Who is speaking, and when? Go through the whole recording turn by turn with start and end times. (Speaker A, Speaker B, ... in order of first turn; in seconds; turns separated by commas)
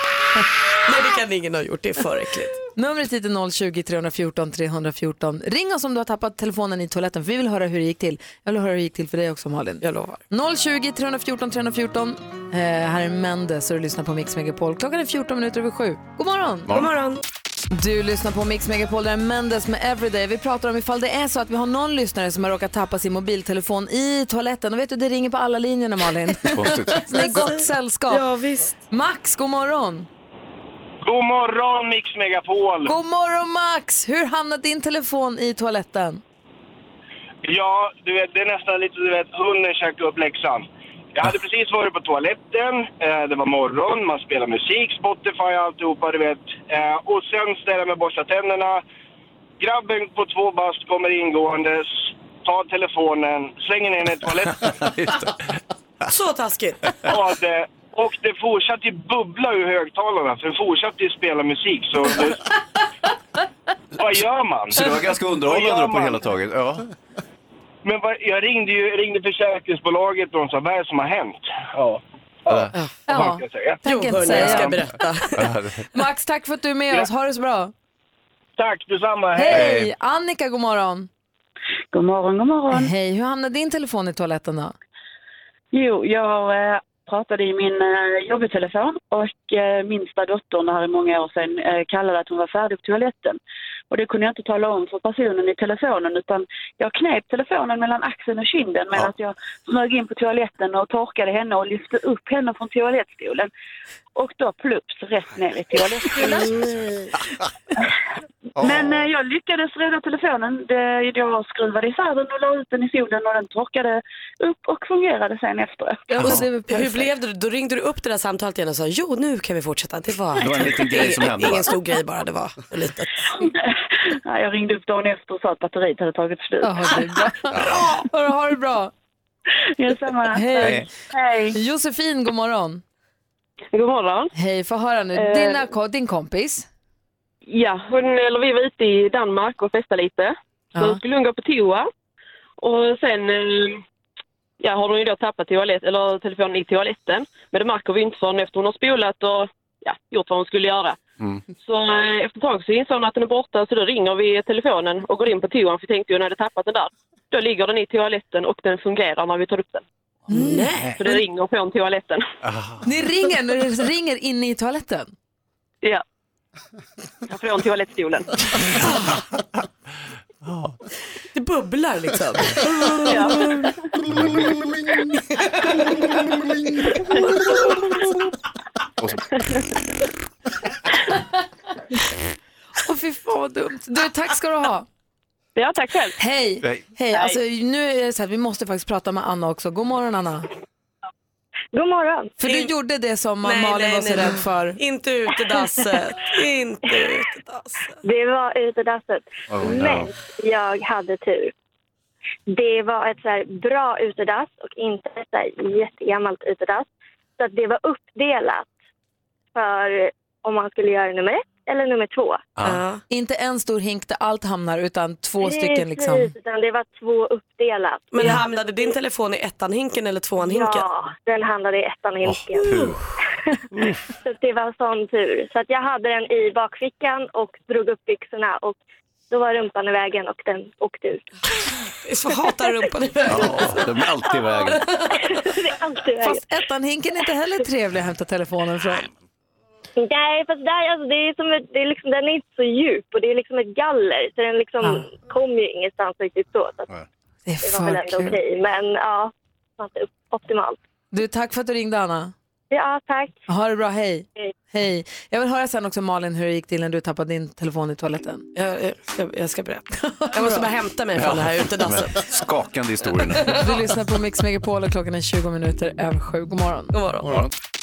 Speaker A: 0.8-2.6, Speaker B: 2.8-16.7, Speaker A: 9.8-10.2, Speaker A: 16.7-17.2, Speaker B: 17.7-28.2, Speaker C: 26.5-27.4, Speaker A: 28.1-28.8, Speaker B: 28.9-30.1, Speaker D: 31.0-32.9, Speaker B: 32.8-36.2, Speaker D: 37.4-48.8, Speaker D: 49.6-54.6, Speaker C: 54.6-55.6, Speaker A: 56.1-57.0, Speaker D: 57.1-62.4, Speaker D: 64.0-64.9, Speaker C: 64.7-66.9, Speaker D: 65.4-66.2, Speaker D: 67.8-73.8, Speaker C: 72.5-72.7, Speaker B: 73.1-75.0, Speaker A: 73.8-75.5, Speaker C: 74.3-75.9, Speaker B: 75.9-77.7, Speaker D: 78.6-79.7, Speaker B: 79.3-81.1, Speaker C: 79.5-79.9, Speaker E: 81.9-82.9, Speaker B: 82.7-84.7, Speaker E: 85.7-93.4, Speaker E: 93.9-103.5, Speaker E: 104.1-106.5, Speaker B: 106.2-106.5, Speaker A: 106.5-106.9, Speaker E: 108.6-116.1, Speaker A: 116.1-123.2, Speaker B: 116.1-117.1, Speaker C: 120.3-121.7, Speaker E: 124.2-127.0, Speaker B: 126.6-128.9, Speaker C: 127.5-127.9, Speaker E: 129.8-131.6, Speaker B: 130.3-130.9, Speaker B: 131.5-132.8, Speaker F: 133.7-134.3, Speaker B: 134.3-136.7, Speaker F: 137.5-141.8, Speaker F: 142.6-143.8, Speaker F: 144.6-151.0, Speaker F: 151.6-159.8, Speaker A: 160.3-161.2, Speaker F: 161.0-162.2, Speaker C: 162.4-162.8, Speaker B: 162.8-165.1, Speaker F: 167.3-168.2, Speaker C: 170.4-170.8, Speaker A: 171.3-173.7, Speaker A: 175.4-176.0, Speaker A: 177.0-178.0, Speaker B: 182.8-184.8, Speaker B: 186.2-190.5, Speaker G: 191.7-192.3, Speaker B: 192.4-194.8, Speaker A: 192.4-192.7, Speaker A: 193.4-197.9, Speaker G: 198.0-201.5, Speaker C: 199.5-200.1, Speaker G: 202.5-206.8, Speaker G: 207.4-208.7, Speaker G: 209.5-212.4, Speaker C: 212.6-212.8, Speaker A: 212.6-213.0, Speaker B: 213.1-216.3, Speaker G: 215.4-218.9, Speaker A: 218.1-220.9, Speaker G: 220.4-222.8, Speaker C: 222.2-223.1, Speaker C: 223.7-224.0, Speaker G: 224.2-228.8, Speaker G: 229.3-231.2, Speaker A: 232.0-233.8, Speaker C: 233.3-234.8, Speaker G: 235.3-236.4, Speaker B: 236.2-239.1, Speaker G: 240.0-246.9, Speaker B: 247.5-248.4, Speaker G: 247.6-250.8, Speaker B: 251.1-252.3, Speaker G: 252.7-253.3, Speaker B: 253.5-258.4, Speaker A: 258.5-262.2, Speaker B: 260.2-260.6, Speaker C: 261.1-263.6, Speaker B: 263.5-266.9, Speaker A: 266.9-267.4